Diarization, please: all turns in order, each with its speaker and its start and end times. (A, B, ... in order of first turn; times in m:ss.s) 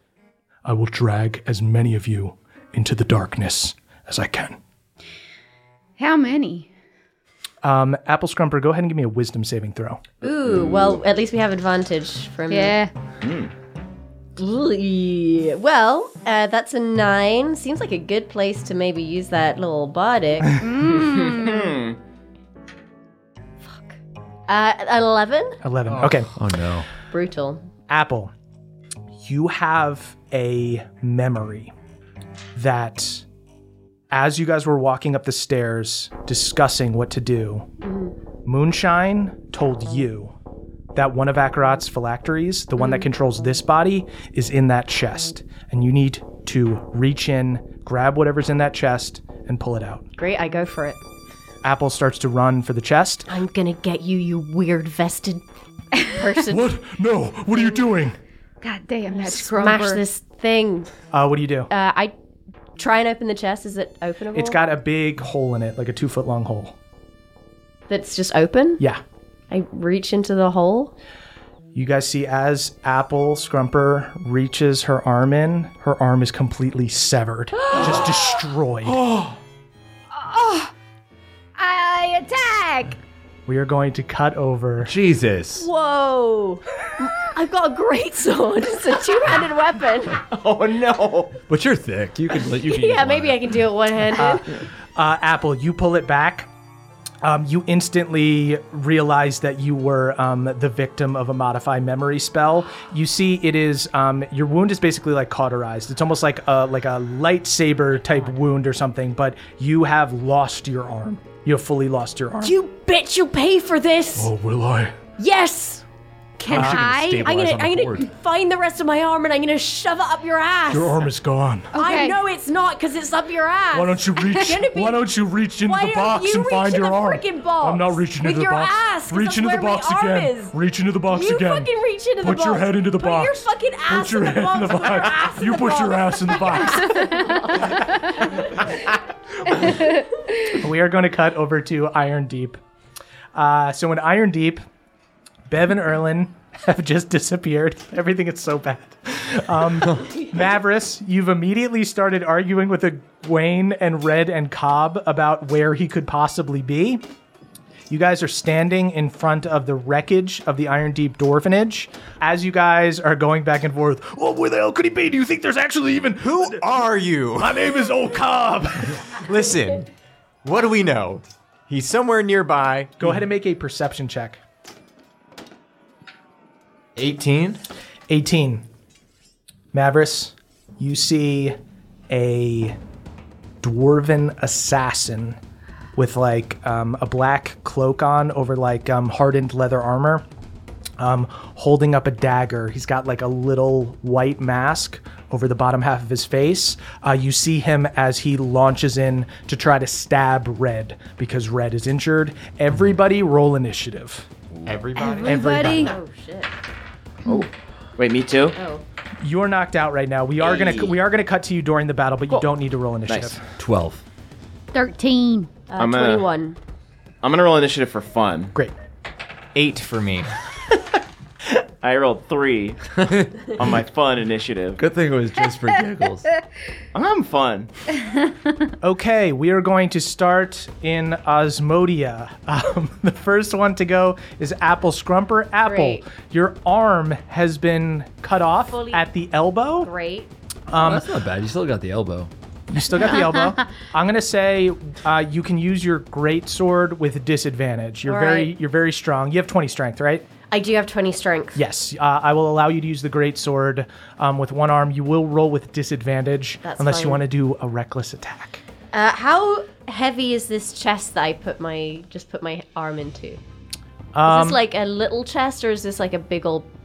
0:00.6-0:04.6 A
0:06.0-0:06.7 B
0:07.6-0:10.0 C
0:10.2-0:12.8 D
0:10.5-0:10.9 E
0:12.5-0:12.9 B
0:13.2-0:13.5 E
0:14.4-0:20.6 D
0:20.6-0:21.8 B
0:21.0-0:22.0 E
0:23.6-0:24.0 D
0:24.5-0:25.6 D
0:25.6-0:26.3 C
0:26.3-0:26.9 F
0:27.1-0:27.7 D
0:27.9-0:28.3 C
0:29.2-0:31.7 C
0:32.6-0:33.2 C
0:34.1-0:37.7 C
0:37.8-0:38.1 D
0:38.4-0:40.3 C
0:41.0-0:50.0 C
0:42.8-0:43.0 D
0:50.2-0:51.0 D
0:51.6-0:53.3 C
0:53.3-0:55.4 D
0:56.0-0:56.7 D
0:56.5-0:58.2 A
0:57.5-0:57.9 D
0:58.6-1:00.0 B
0:59.1-1:00.9 D
1:01.1-1:01.7 C
1:01.7-1:02.1 D
1:02.8-1:04.6 D
1:04.3-1:06.7 C
1:07.9-1:08.8 D
1:09.5-1:10.9 D
1:11.7-1:19.0 C
1:18.9-1:19.3 F
1:20.1-1:20.7 B
1:21.6-1:23.0 B
1:23.5-1:24.9 C
1:24.8-1:25.7 F
1:25.6-1:30.2 D
1:30.3-1:31.4 E
1:31.5-1:33.5 F
1:32.5-1:34.4 D
1:34.2-1:36.5 C
1:37.2-1:52.6 C
1:52.4-1:54.3 D
1:54.2-1:55.0 A
1:55.2-1:55.8 D
1:56.4-1:57.3 B
1:56.4-1:58.1 F
1:56.5-1:56.8 C
1:57.2-2:01.1 D
2:00.7-2:01.7 A
2:01.7-2:02.2 B
2:01.8-2:05.0 D
2:03.7-2:17.0 A
2:05.7-2:10.6 D
2:11.1-2:18.8 D
2:16.9-2:18.0 B
2:19.7-2:20.0 B
2:20.6-2:22.6 C
2:23.4-2:24.6 C
2:25.5-2:37.0 C
2:37.9-2:44.0 C
2:43.9-2:46.7 A
2:46.2-2:47.7 G
2:47.4-2:49.0 A
2:49.0-2:49.9 G
2:50.4-2:53.2 G
2:53.0-2:54.4 C
2:57.0-2:57.6 G
2:58.1-2:58.6 C
2:59.7-3:01.6 C
3:02.1-3:02.8 C
3:03.6-3:05.4 C
3:06.0-3:10.2 C
3:11.0-3:24.3 C
3:24.7-3:25.9 G
3:25.0-3:25.9 B
3:25.3-3:25.9 C
3:25.7-3:26.5 D
3:27.3-3:28.6 E
3:28.6-3:28.8 D
3:29.2-3:33.4 C
3:30.4-3:31.0 E
3:33.1-3:33.4 E
3:33.6-3:34.0 F
3:34.7-3:35.5 B
3:35.7-3:36.6 D
3:35.8-3:36.3 E
3:37.2-3:38.5 E
3:39.6-3:40.3 G
3:41.8-3:42.9 E
3:43.1-3:43.5 F
3:43.5-3:44.8 E
3:44.8-3:46.3 F
3:46.9-3:47.7 E
3:48.8-3:59.9 C
3:55.7-3:56.0 D
3:58.6-3:59.0 D
3:59.8-4:00.3 D
4:00.7-4:01.1 C
4:00.8-4:02.3 F
4:02.7-4:10.2 C
4:08.0-4:08.5 D
4:10.5-4:11.6 D
4:11.6-4:18.6 C
4:16.6-4:17.2 D
4:18.9-4:23.4 D
4:24.1-4:24.6 C
4:24.3-4:26.7 D